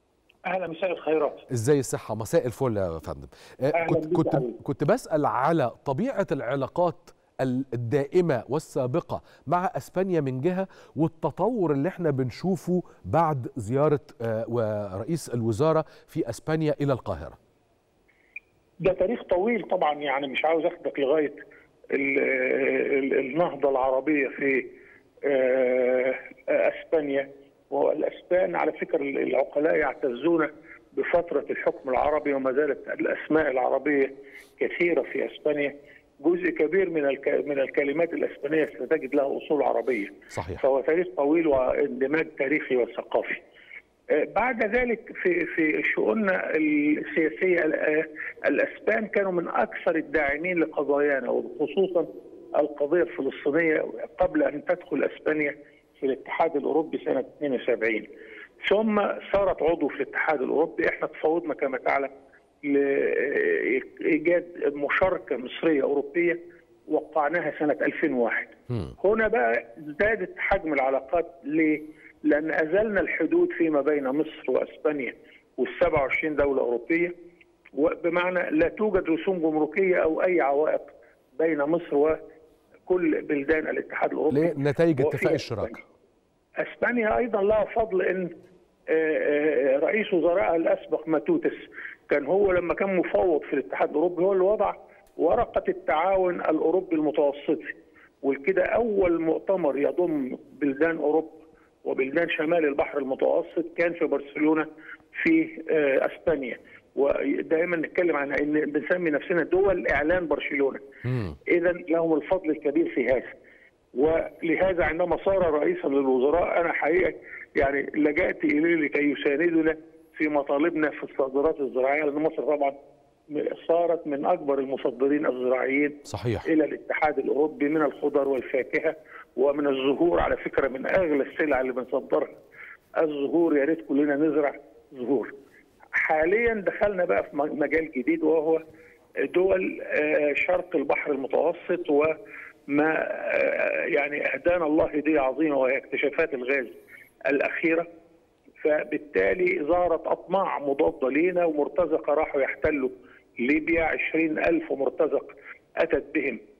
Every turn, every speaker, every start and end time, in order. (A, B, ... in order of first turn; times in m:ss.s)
0:00.4-0:01.4 A
0:01.5-0:17.4 B
0:03.7-0:04.6 A
0:18.8-0:21.4 A
0:21.9-0:24.6 A
0:25.2-0:43.4 A
0:40.3-0:40.6 B
0:44.1-0:52.1 A
0:52.6-0:58.1 A
0:58.6-1:02.1 A
1:02.6-1:17.1 A
1:17.7-1:22.2 A
1:22.9-1:25.8 A
1:24.3-1:25.8 B
1:26.6-1:28.3 A
1:28.9-1:50.8 A
1:51.0-1:51.4 B
1:51.5-1:53.3 A
1:53.9-2:02.7 A
2:03.3-2:12.4 A
2:06.1-2:06.5 B
2:13.0-2:15.3 A
2:16.0-2:18.6 A
2:19.2-2:22.1 A
2:22.7-2:26.7 A
2:27.3-2:27.8 A
2:28.6-2:36.4 A